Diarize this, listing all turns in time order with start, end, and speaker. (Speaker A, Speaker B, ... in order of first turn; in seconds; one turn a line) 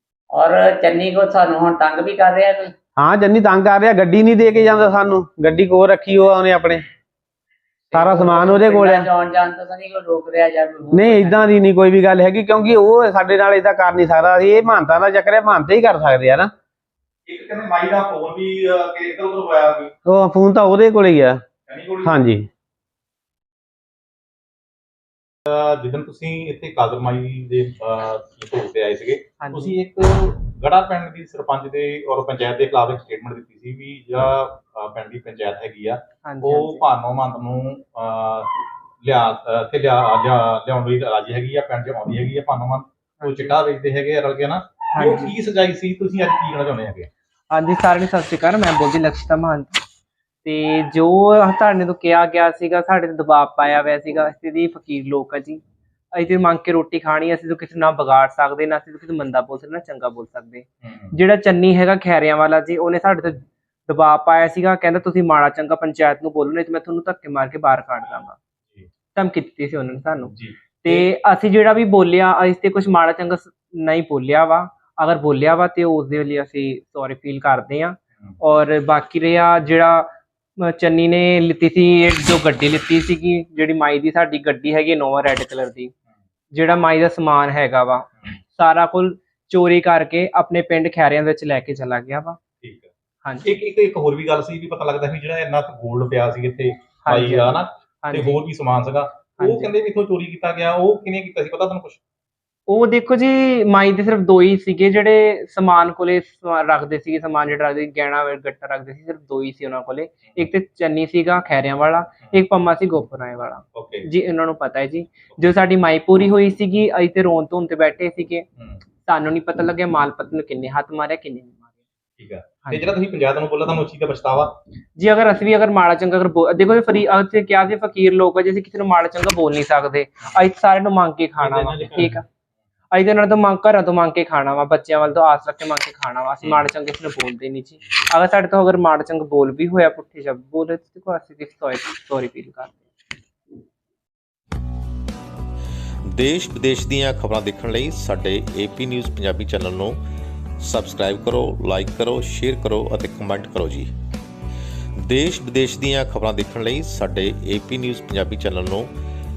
Speaker A: 0.3-2.7
Speaker B: 3.0-6.8
Speaker A: 7.9-11.5
Speaker B: 7.9-9.1
Speaker B: 10.9-16.5
Speaker C: 17.3-19.9
Speaker B: 20.1-21.4
Speaker C: 21.7-22.2
Speaker B: 22.0-22.5
Speaker C: 25.5-38.5
Speaker D: 29.4-29.8
Speaker D: 36.2-36.8
Speaker C: 39.0-47.1
Speaker D: 43.2-43.5
Speaker D: 44.9-45.3
Speaker D: 47.5-49.8
Speaker D: 50.4-55.6
Speaker D: 56.1-68.3
Speaker C: 60.8-61.1
Speaker D: 69.1-85.9
Speaker C: 70.3-71.0
Speaker D: 86.5-92.4
Speaker C: 92.6-92.9
Speaker D: 93.2-93.5
Speaker C: 93.4-102.0
Speaker D: 97.0-98.4
Speaker D: 99.4-99.7
Speaker D: 102.7-118.5
Speaker C: 113.8-114.1
Speaker D: 119.0-121.7
Speaker C: 122.2-124.5
Speaker D: 125.0-132.2
Speaker C: 131.4-132.2
Speaker D: 132.9-142.9
Speaker E: 146.1-150.0
Speaker E: 150.6-153.9
Speaker E: 155.0-158.9